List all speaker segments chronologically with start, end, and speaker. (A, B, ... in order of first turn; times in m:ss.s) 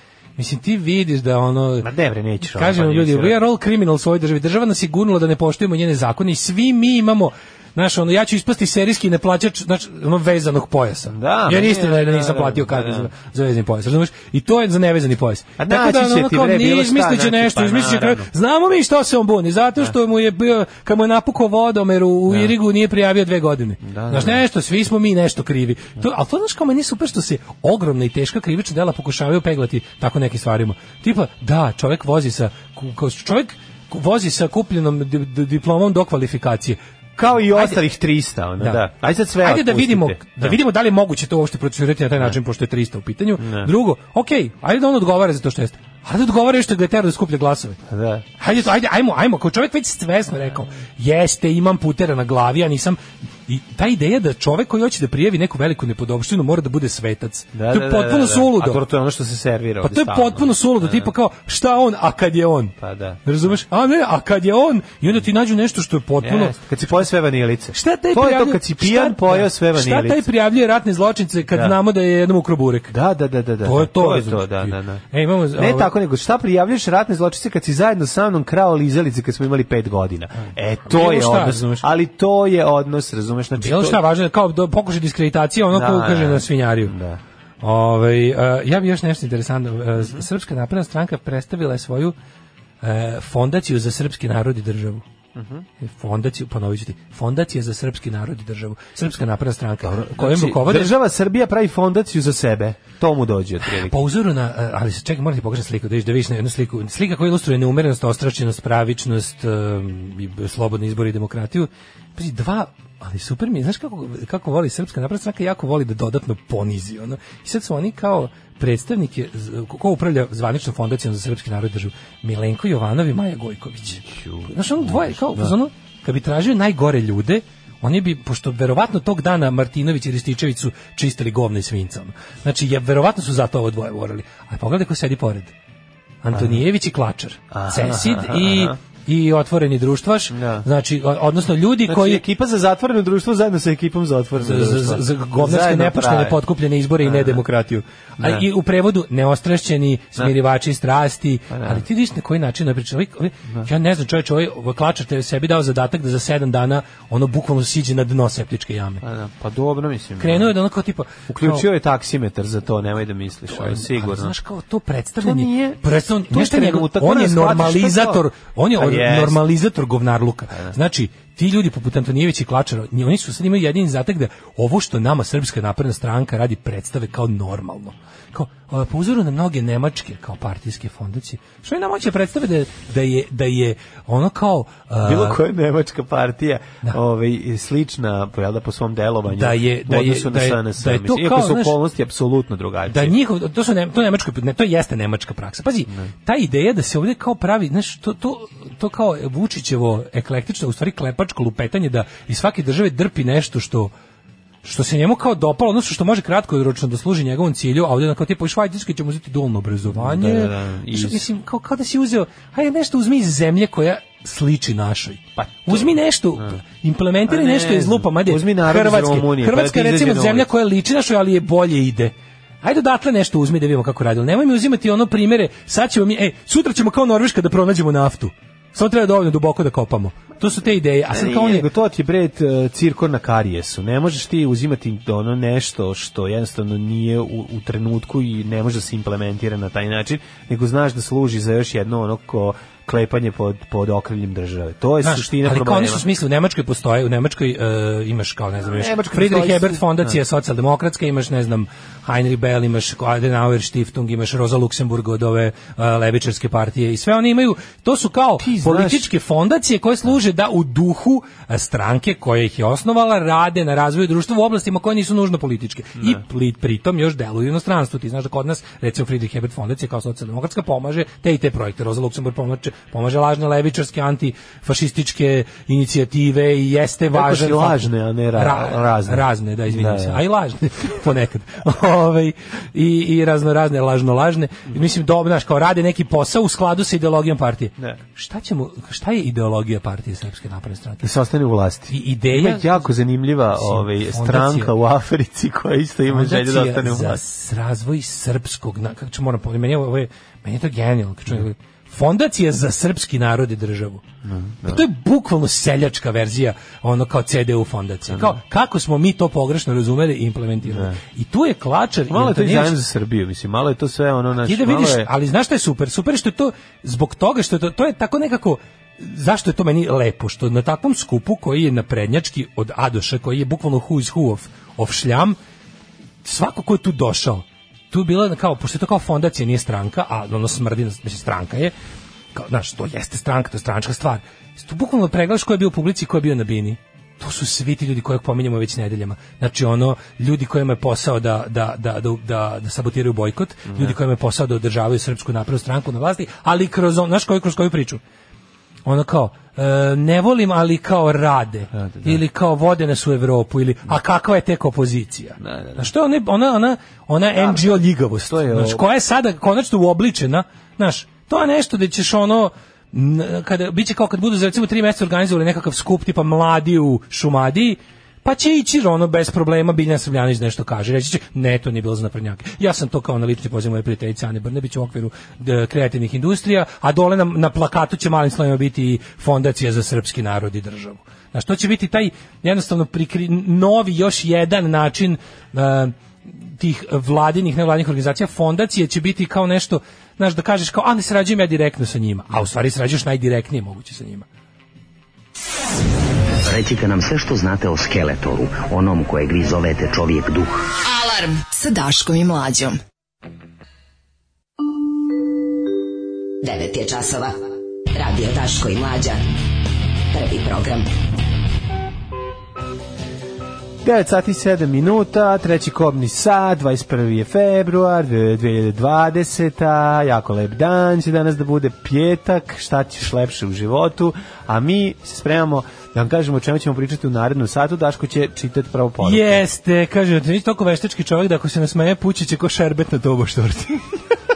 0:00.4-0:01.9 A
0:01.8-0:03.4 B
0:02.4-0:36.8 A
0:11.1-0:13.1 B
0:15.6-0:18.3 B
0:22.3-0:22.5 B
0:23.8-0:24.4 B
0:37.2-0:40.6 B
0:37.5-0:37.8 A
0:38.6-0:38.8 A
0:39.4-0:47.8 A
0:43.4-0:43.7 B
0:47.9-0:48.2 B
0:48.4-0:58.8 A
0:57.5-1:01.1 B
0:59.8-1:06.6 A
1:02.8-1:03.5 B
1:06.2-1:10.3 B
1:07.7-1:12.9 A
1:11.5-1:11.8 B
1:12.9-1:15.0 B
1:13.6-1:15.9 A
1:15.6-1:24.0 B
1:20.9-1:21.9 A
1:23.6-1:26.9 A
1:25.7-1:27.2 B
1:27.6-1:32.2 A
1:30.0-1:30.2 B
1:32.8-1:35.0 A
1:35.4-1:35.7 B
1:35.8-1:40.9 A
1:40.0-1:44.0 B
1:43.7-2:15.5 A
2:04.0-2:05.5 B
2:16.2-2:22.2 A
2:16.3-2:16.6 B
2:17.5-2:18.8 B
2:20.3-2:20.7 B
2:21.9-2:26.4 B
2:24.4-2:39.0 A
2:27.0-2:27.4 B
2:28.2-2:28.5 B
2:31.5-2:31.8 B
2:39.0-2:40.5 B
2:40.2-2:41.7 A
2:41.3-2:44.3 B
2:43.5-3:05.4 A
2:45.2-2:48.2 B
2:48.8-2:49.4 B
3:05.0-3:13.2 B
3:09.3-3:11.8 A
3:12.9-3:23.9 A
3:24.6-3:51.7 A
3:29.9-3:31.3 B
3:35.4-3:36.6 B
3:37.3-3:40.5 B
3:51.1-4:06.0 B
4:05.0-4:51.1 A
4:08.6-4:10.2 B
4:18.4-4:19.1 B
4:37.1-4:40.2 B
4:51.0-4:57.2 B
4:51.9-4:53.0 A
4:53.6-4:54.7 A
4:56.1-5:04.0 A
5:04.2-5:04.8 B
5:04.7-5:12.8 A
5:08.1-5:08.4 B
5:10.6-5:11.0 B
5:12.1-5:15.1 B
5:14.4-5:25.4 A
5:26.2-5:31.7 A
5:32.4-5:48.0 A
5:43.7-5:44.0 B
5:48.9-6:34.3 A
5:51.7-5:52.2 B
5:55.4-5:55.9 B
5:57.4-5:58.8 B
6:36.4-6:40.7 C
6:40.8-6:42.8 D
6:46.4-6:47.4 E
6:48.0-6:49.2 E
6:50.1-6:50.9 E
6:53.8-7:09.4 B
7:09.0-7:14.0 A